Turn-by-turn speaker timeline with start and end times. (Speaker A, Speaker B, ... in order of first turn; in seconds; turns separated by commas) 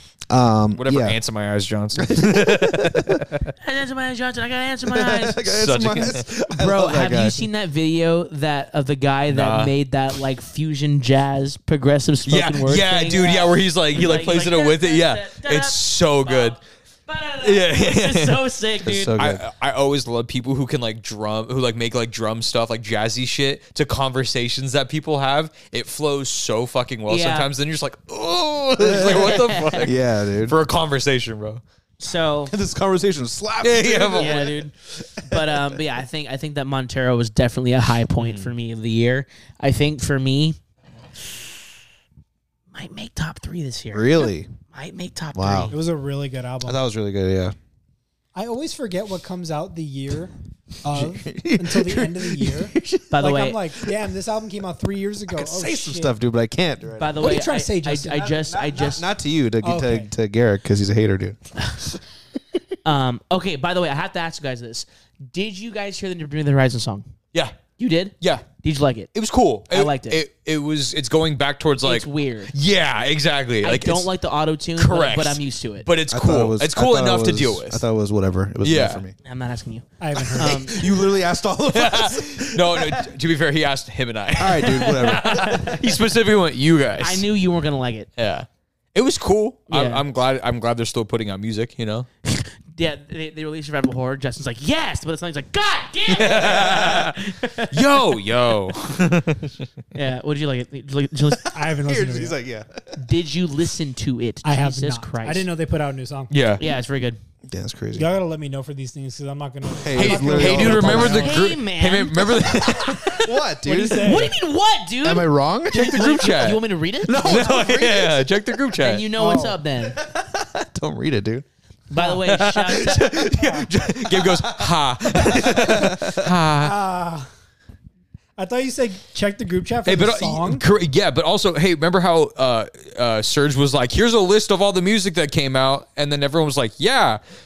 Speaker A: 0.3-1.2, Speaker B: 0.8-3.5, Speaker A: 1.9-3.3, Speaker C: 3.6-5.5, Speaker A: 4.8-7.5, Speaker B: 5.4-6.2, Speaker C: 6.5-19.1, Speaker B: 9.3-9.7, Speaker B: 12.3-16.6, Speaker B: 17.4-18.4, Speaker A: 18.8-19.4, Speaker B: 19.2-31.6, Speaker C: 27.1-27.5, Speaker A: 28.8-30.6, Speaker C: 28.9-29.9, Speaker C: 32.0-32.5, Speaker A: 32.5-35.8, Speaker B: 33.6-34.6, Speaker C: 34.1-34.7, Speaker C: 35.2-40.6, Speaker B: 38.2-38.5, Speaker C: 42.7-45.7, Speaker A: 43.9-44.5, Speaker A: 45.3-45.7, Speaker D: 45.7-46.8, Speaker A: 46.6-47.5, Speaker D: 48.3-56.1, Speaker A: 50.9-53.1, Speaker C: 53.1-53.6, Speaker A: 55.3-57.4, Speaker C: 57.0-59.0, Speaker D: 57.1-58.4, Speaker A: 58.2-61.4, Speaker D: 59.6-60.1, Speaker C: 62.8-67.1, Speaker C: 67.8-69.1, Speaker B: 68.2-68.5, Speaker B: 69.1-74.1, Speaker C: 69.7-70.2, Speaker C: 71.8-72.5, Speaker C: 73.6-75.9, Speaker B: 74.8-77.8, Speaker A: 76.1-79.1, Speaker B: 78.6-79.0, Speaker C: 79.2-80.8, Speaker D: 80.0-80.8, Speaker A: 80.2-83.1, Speaker B: 81.7-87.2, Speaker A: 84.4-85.8, Speaker C: 85.0-85.8, Speaker C: 87.0-88.1, Speaker B: 88.2-92.1, Speaker C: 89.7-90.0, Speaker C: 92.2-97.8, Speaker B: 96.1-97.2, Speaker B: 97.7-99.7, Speaker C: 99.9-101.5, Speaker D: 101.5-102.4, Speaker A: 101.6-103.0, Speaker C: 103.0-105.5, Speaker D: 104.4-106.3, Speaker B: 106.3-106.6, Speaker C: 106.6-107.2, Speaker A: 107.5-108.1, Speaker D: 107.9-111.4, Speaker A: 109.8-111.3, Speaker B: 109.9-113.2, Speaker C: 110.8-113.3, Speaker A: 113.1-114.3, Speaker D: 113.6-114.3, Speaker C: 113.9-117.6, Speaker A: 115.0-116.0, Speaker B: 115.7-116.6, Speaker A: 117.0-118.3, Speaker B: 117.1-119.1, Speaker C: 118.8-120.0, Speaker D: 119.2-119.5, Speaker A: 119.2-121.4, Speaker C: 121.9-123.2, Speaker B: 122.1-126.8, Speaker A: 123.1-126.3, Speaker D: 126.6-127.3, Speaker D: 128.4-130.6, Speaker B: 129.8-137.2